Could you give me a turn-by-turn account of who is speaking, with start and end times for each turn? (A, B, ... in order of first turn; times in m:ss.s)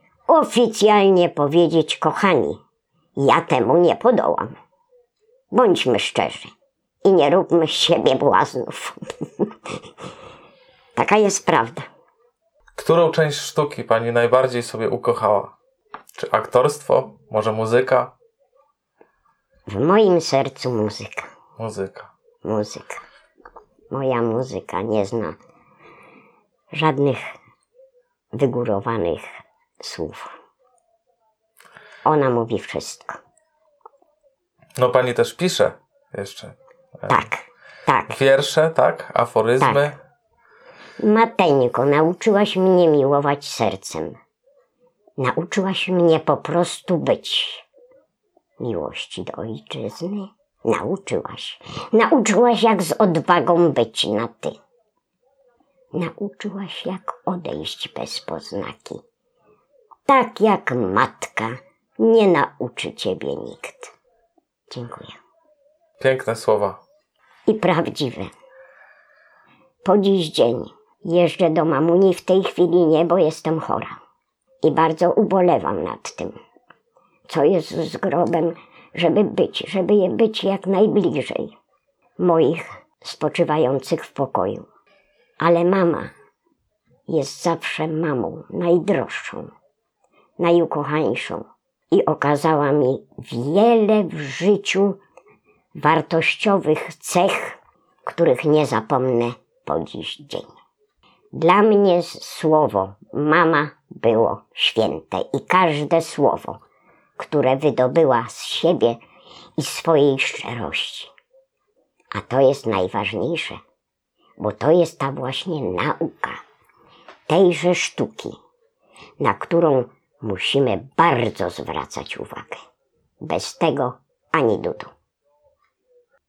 0:00.3-0:02.6 A
0:03.2-0:04.5 A
0:05.5-0:06.5 A
0:07.0-0:09.5 A
0:11.0-0:11.9 A
0:12.8-0:15.5 B
0:16.2-0:18.1 B
0:19.7-0:21.3 A
0:21.6-0:22.1 B
0:22.4-0:23.0 A
0:23.9-0:25.4 A
0:26.7-0:27.3 A
0:28.4-0:30.4 A
0:32.0-0:33.2 A
0:34.8-0:37.2 B
0:37.1-0:38.2 A
0:38.1-0:40.0 B
0:39.6-0:39.9 A
0:41.0-0:44.2 A
0:45.2-0:47.6 A
0:48.6-0:54.6 A
0:55.9-0:59.0 A
1:00.1-1:03.9 A
1:04.7-1:05.2 A
1:06.0-1:06.8 B
1:07.5-1:08.3 A
1:09.8-1:14.0 A
1:14.6-1:16.4 A
1:17.3-1:21.6 A
1:22.2-1:24.7 A
1:25.4-1:26.1 A
1:27.1-1:29.5 A
1:30.4-1:35.0 A
1:35.8-1:40.5 A
1:41.3-1:46.6 A
1:47.2-1:49.0 A
1:49.6-1:51.1 A
1:52.1-1:53.6 A
1:54.4-1:56.4 A
1:57.3-1:58.4 A
1:59.2-2:02.6 A
2:03.2-2:04.9 A